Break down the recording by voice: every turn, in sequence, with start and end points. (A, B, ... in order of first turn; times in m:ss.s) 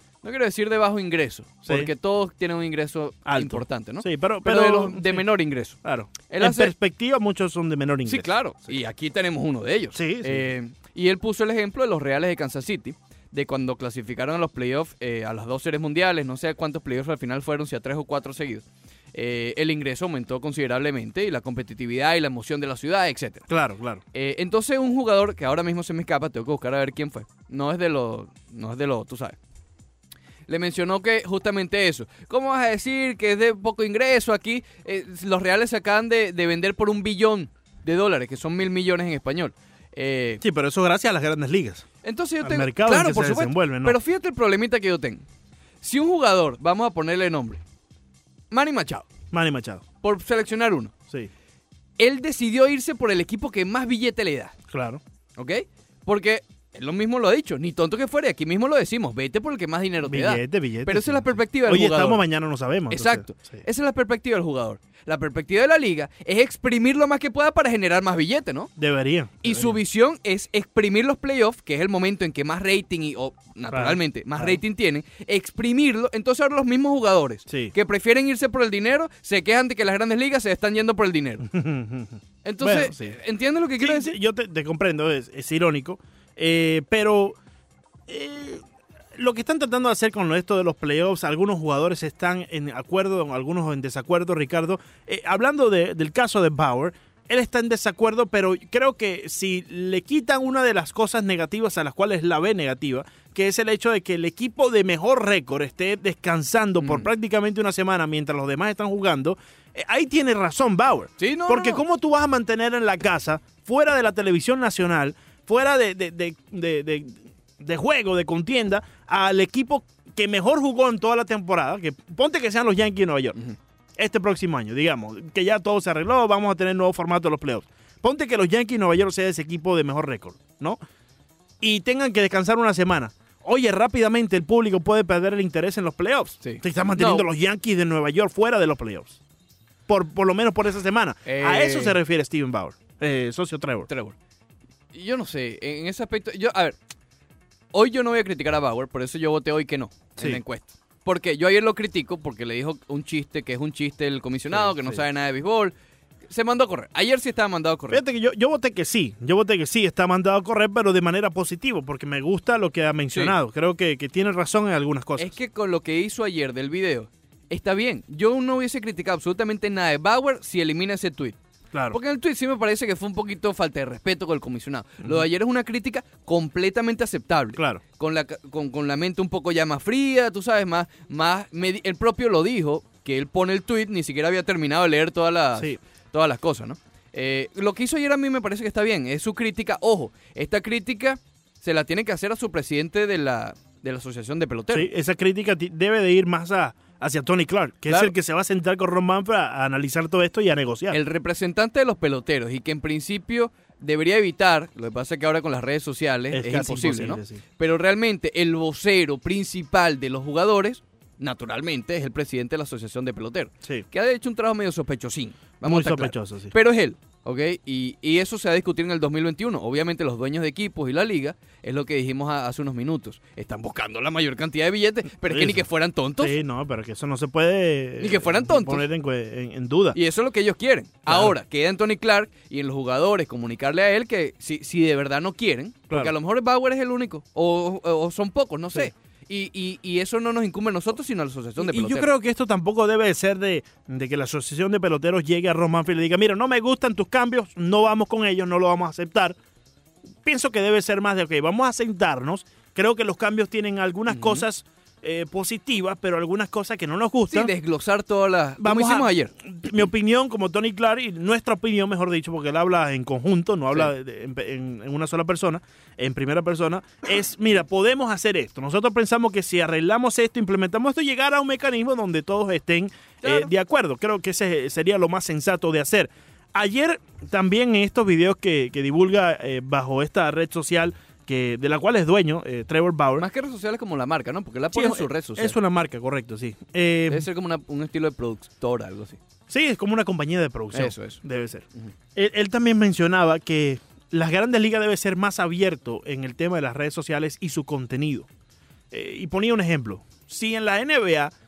0:00.2-0:06.7 A
0:01.6-0:01.9 B
0:03.2-0:05.2 B
0:05.8-0:08.8 B
0:08.0-0:23.4 A
0:09.9-0:10.5 B
0:23.5-0:24.0 B
0:24.1-0:29.4 A
0:30.5-0:40.4 A
0:40.4-0:41.8 B
0:42.0-0:45.2 A
0:42.4-0:44.0 B
0:45.8-0:47.6 A
0:48.5-0:49.0 A
0:49.3-0:49.8 B
0:50.0-0:50.9 A
0:52.0-0:54.5 A
0:54.7-0:55.0 B
0:55.4-1:02.2 A
1:00.0-1:03.6 B
1:02.9-1:08.7 A
1:08.8-1:09.8 B
1:09.4-1:21.5 A
1:13.7-1:14.6 B
1:17.5-1:17.7 B
1:21.4-1:23.2 B
1:22.4-1:24.2 A
1:23.8-1:27.4 B
1:28.1-2:03.4 B
1:46.8-1:47.1 A
1:51.2-1:51.8 A
2:04.0-2:10.8 B
2:11.6-2:19.2 B
2:16.4-2:17.2 A
2:19.9-2:23.9 B
2:21.2-2:22.0 A
2:23.9-2:24.2 A
2:24.9-2:26.8 A
2:27.7-2:35.7 A
2:34.5-2:35.0 B
2:36.3-2:38.0 A
2:37.9-2:45.3 B
2:45.2-2:51.4 A
2:51.7-2:52.0 B
2:51.9-3:14.9 A
2:57.6-2:57.8 B
3:14.7-3:21.0 B
3:20.9-3:46.4 A
3:26.3-3:27.4 B
3:35.6-3:36.5 B
3:45.3-3:45.6 B
3:46.2-3:50.0 B
3:48.0-3:48.9 A
3:49.9-4:02.1 A
3:51.1-3:51.3 B
4:01.6-4:09.4 B
4:10.2-4:17.5 B
4:14.1-4:14.4 A
4:17.3-4:19.3 A
4:18.6-4:43.2 B
4:33.2-4:33.5 A
4:43.2-4:45.6 A
4:44.7-4:47.3 B
4:47.1-4:49.2 A
4:49.5-4:58.3 B
4:50.7-4:51.2 A
4:58.9-5:01.3 B